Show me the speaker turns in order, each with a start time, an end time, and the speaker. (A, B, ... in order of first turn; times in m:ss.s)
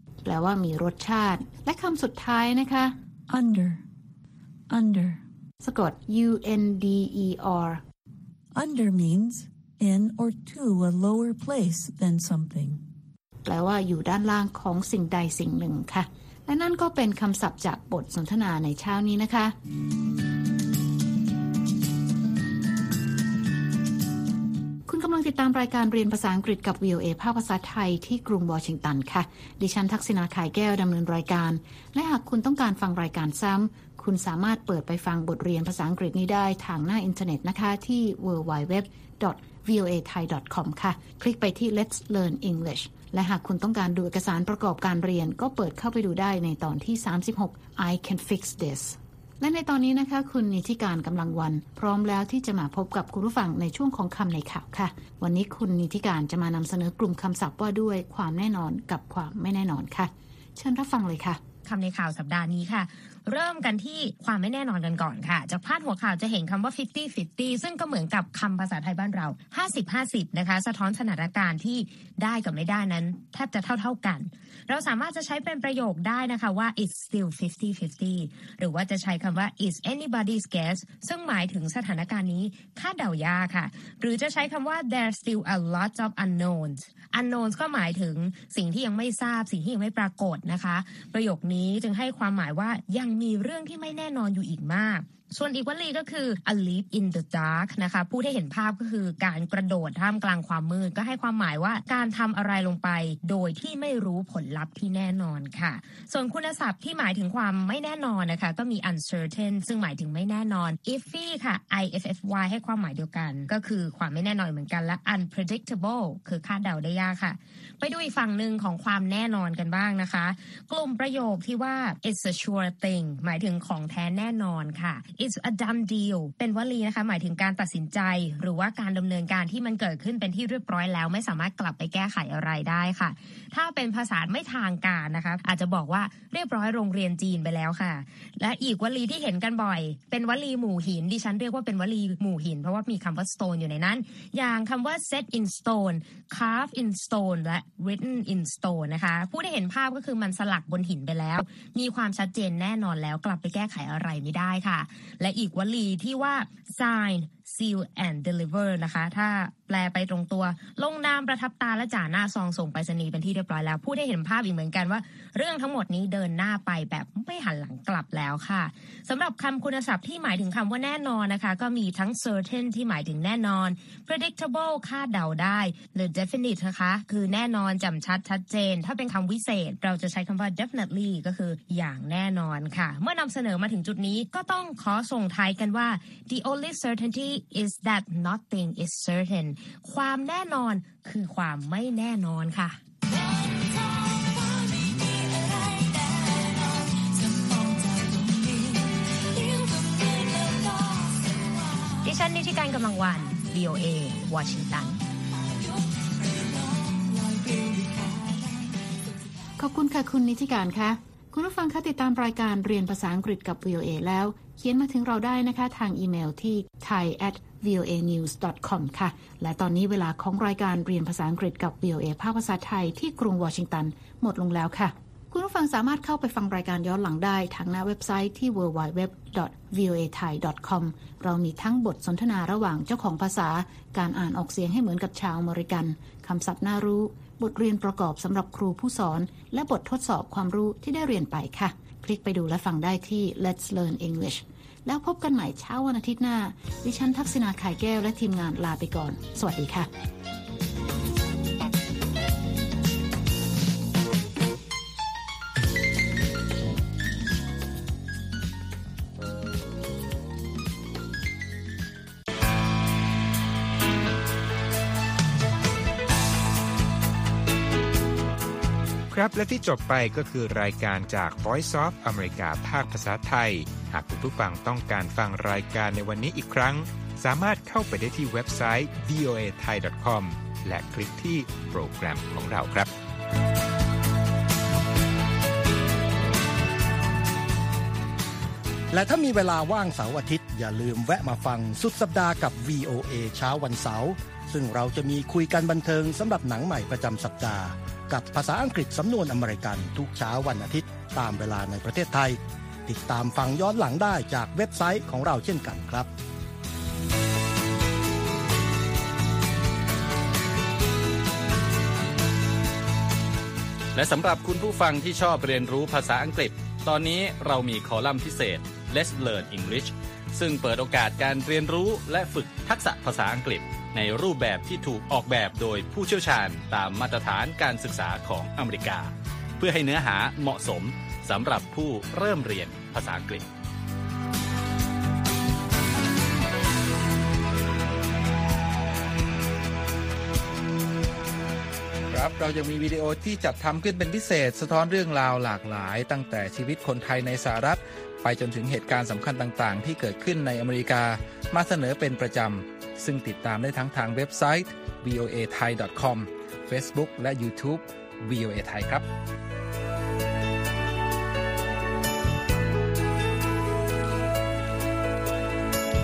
0:00.2-0:02.9 A
0:03.3-0:03.8 B
0:04.7-0:05.2 B
0:05.6-0:07.8 A
0:08.5-0:12.8 B
0:13.4-0:19.5 A
0:24.9-1:01.4 A
1:01.6-3:12.8 C
3:13.1-3:21.9 B
3:22.0-3:25.0 C
3:25.4-3:29.0 B
3:29.6-4:09.9 A
4:29.1-4:42.9 D
4:48.9-5:06.1 E
5:13.9-5:33.4 F
5:42.1-5:59.0 G